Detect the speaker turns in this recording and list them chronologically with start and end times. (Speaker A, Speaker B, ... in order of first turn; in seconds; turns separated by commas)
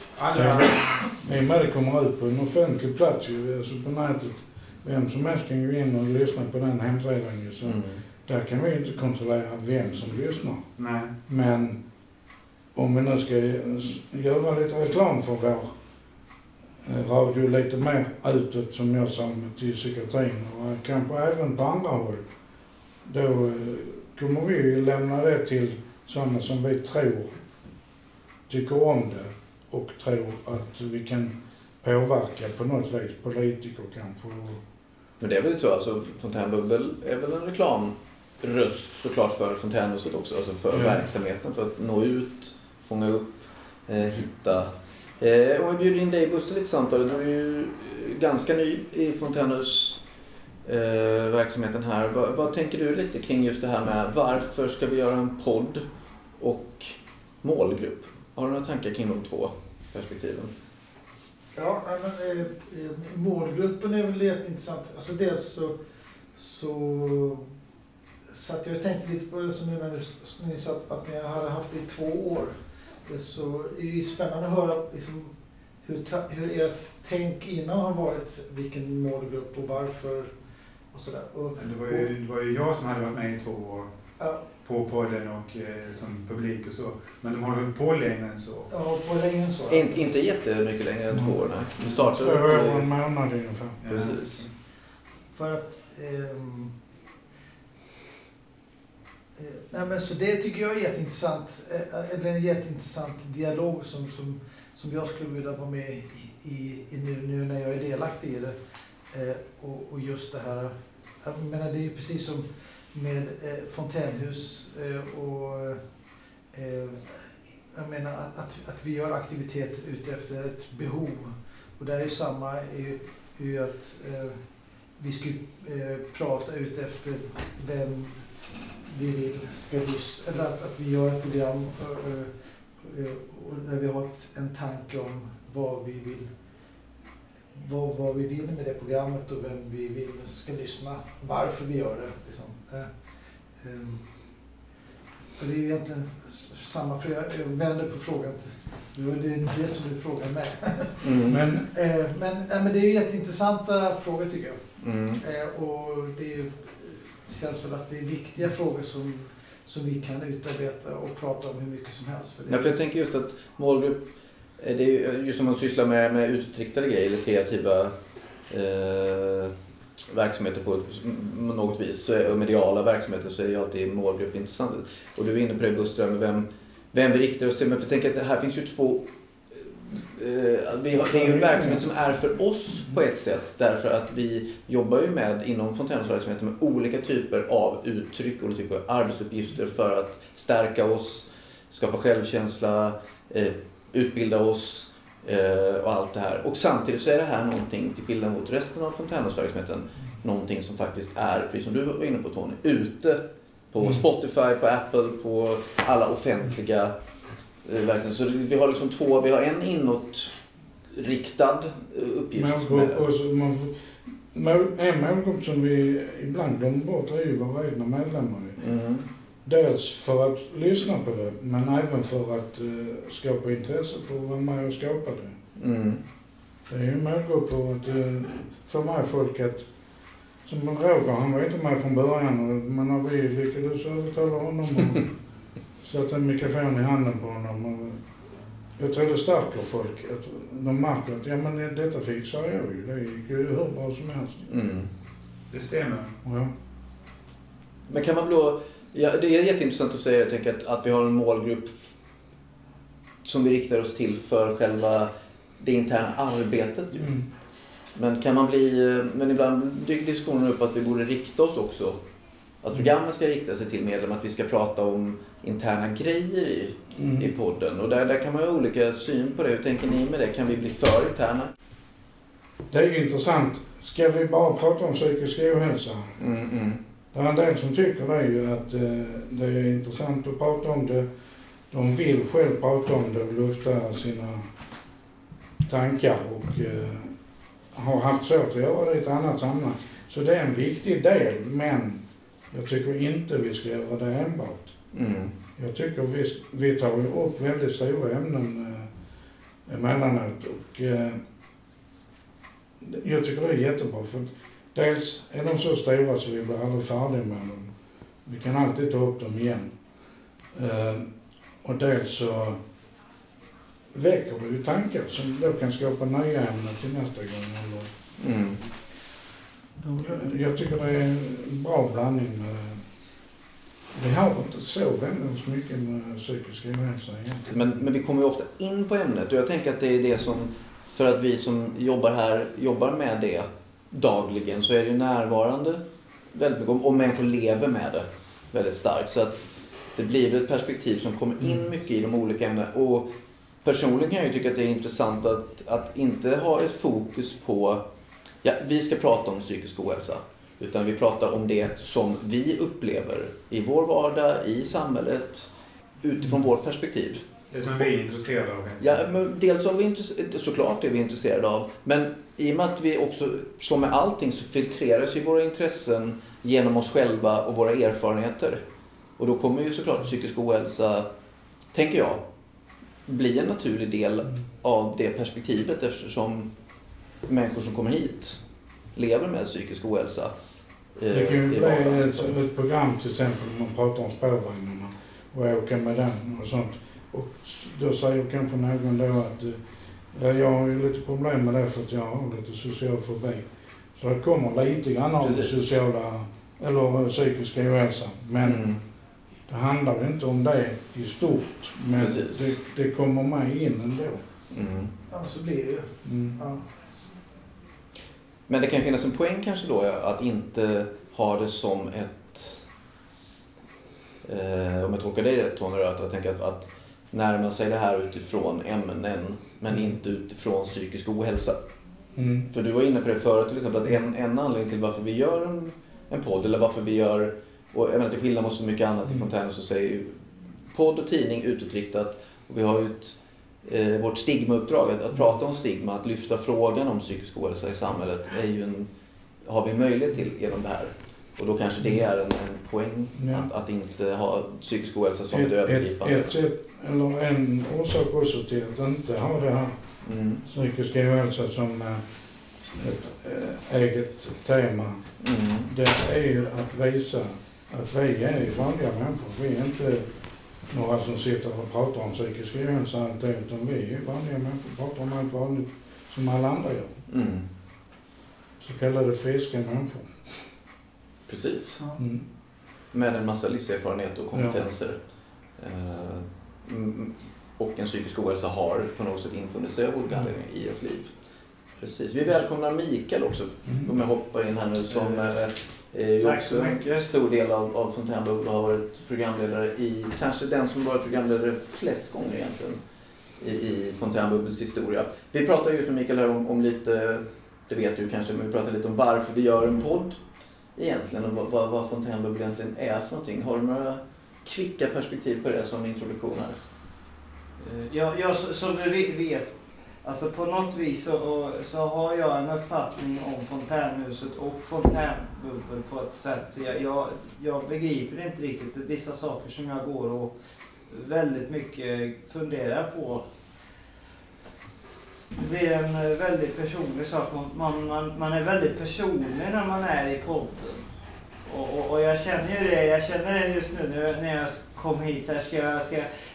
Speaker A: 0.1-1.1, Speaker B: 0.3-10.7, Speaker C: 7.6-8.0, Speaker A: 10.8-11.1, Speaker B: 11.3-11.8, Speaker B: 12.8-15.7, Speaker B: 16.8-22.2, Speaker B: 23.0-27.3, Speaker B: 28.5-34.6, Speaker C: 35.2-43.3, Speaker B: 40.7-41.0, Speaker C: 43.9-50.0, Speaker C: 50.6-55.9, Speaker C: 56.4-60.5, Speaker D: 61.5-65.8, Speaker D: 66.3-67.5, Speaker D: 68.3-82.1, Speaker A: 81.6-83.9, Speaker D: 84.2-84.5, Speaker A: 84.5-88.7, Speaker D: 88.7-90.1, Speaker C: 89.7-92.9, Speaker B: 91.1-93.8, Speaker A: 93.8-94.5, Speaker C: 93.9-94.4, Speaker D: 95.3-96.8, Speaker D: 99.4-115.9, Speaker D: 116.5-136.4, Speaker D: 137.5-144.5, Speaker D: 145.4-162.8, Speaker C: 151.0-151.4, Speaker B: 151.3-151.7, Speaker C: 154.8-155.2, Speaker C: 162.5-164.1, Speaker C: 164.6-167.9, Speaker C: 168.5-169.5, Speaker C: 170.1-206.9, Speaker B: 181.1-181.8, Speaker C: 207.6-210.3, Speaker C: 210.9-213.0, Speaker B: 212.3-218.6, Speaker C: 218.6-219.1, Speaker B: 219.4-225.4, Speaker C: 225.6-226.0, Speaker B: 226.7-229.7, Speaker B: 230.4-235.1, Speaker B: 235.8-238.0, Speaker B: 238.8-244.4, Speaker C: 244.5-244.9, Speaker A: 245.5-246.1, Speaker B: 246.2-246.5, Speaker C: 247.9-251.9, Speaker C: 253.2-257.1, Speaker B: 257.0-257.2, Speaker C: 257.9-262.0, Speaker C: 262.6-271.5, Speaker B: 267.0-267.3, Speaker B: 272.7-276.1, Speaker C: 276.2-276.8, Speaker B: 277.1-281.1, Speaker B: 281.7-284.5, Speaker B: 285.6-287.1, Speaker B: 287.7-294.7, Speaker C: 294.9-295.3, Speaker B: 295.6-298.9, Speaker B: 299.6-301.2, Speaker B: 302.8-307.7, Speaker B: 308.2-309.7, Speaker B: 310.5-311.1, Speaker B: 311.6-312.6, Speaker B: 313.9-317.9, Speaker C: 318.2-318.6, Speaker D: 319.8-320.3, Speaker B: 319.9-322.8, Speaker B: 323.9-327.5, Speaker C: 327.5-335.8, Speaker C: 336.3-343.1, Speaker C: 343.6-347.8, Speaker C: 348.4-355.5, Speaker C: 356.0-357.2, Speaker A: 357.5-359.1, Speaker C: 358.8-368.6, Speaker C: 369.2-371.1, Speaker C: 371.7-372.2, Speaker C: 373.1-376.5, Speaker C: 377.2-378.4, Speaker C: 378.9-380.3, Speaker C: 381.0-382.3, Speaker B: 381.1-398.7, Speaker C: 395.2-395.7, Speaker C: 398.4-398.8, Speaker B: 399.5-404.2, Speaker C: 401.9-402.6, Speaker C: 404.5-404.9, Speaker D: 405.1-406.6, Speaker B: 406.0-406.4, Speaker C: 408.5-412.6, Speaker C: 414.2-421.6, Speaker B: 422.1-422.5, Speaker C: 422.5-438.9, Speaker C: 439.4-446.3, Speaker B: 443.2-443.5, Speaker B: 445.3-449.8, Speaker C: 450.0-450.4, Speaker B: 450.4-452.0, Speaker B: 452.7-455.1, Speaker C: 455.2-455.7, Speaker B: 455.6-460.1, Speaker B: 460.7-466.9, Speaker C: 467.1-467.4, Speaker B: 468.6-470.5, Speaker C: 471.3-471.8, Speaker B: 472.0-472.2, Speaker C: 472.9-475.0, Speaker B: 474.3-474.6, Speaker C: 475.6-481.1, Speaker C: 481.8-492.8, Speaker E: 486.2-487.0, Speaker C: 493.4-500.2, Speaker C: 500.8-506.6, Speaker E: 507.6-509.5, Speaker E: 510.0-520.3, Speaker E: 520.9-523.2, Speaker E: 525.3-530.8, Speaker E: 531.5-536.1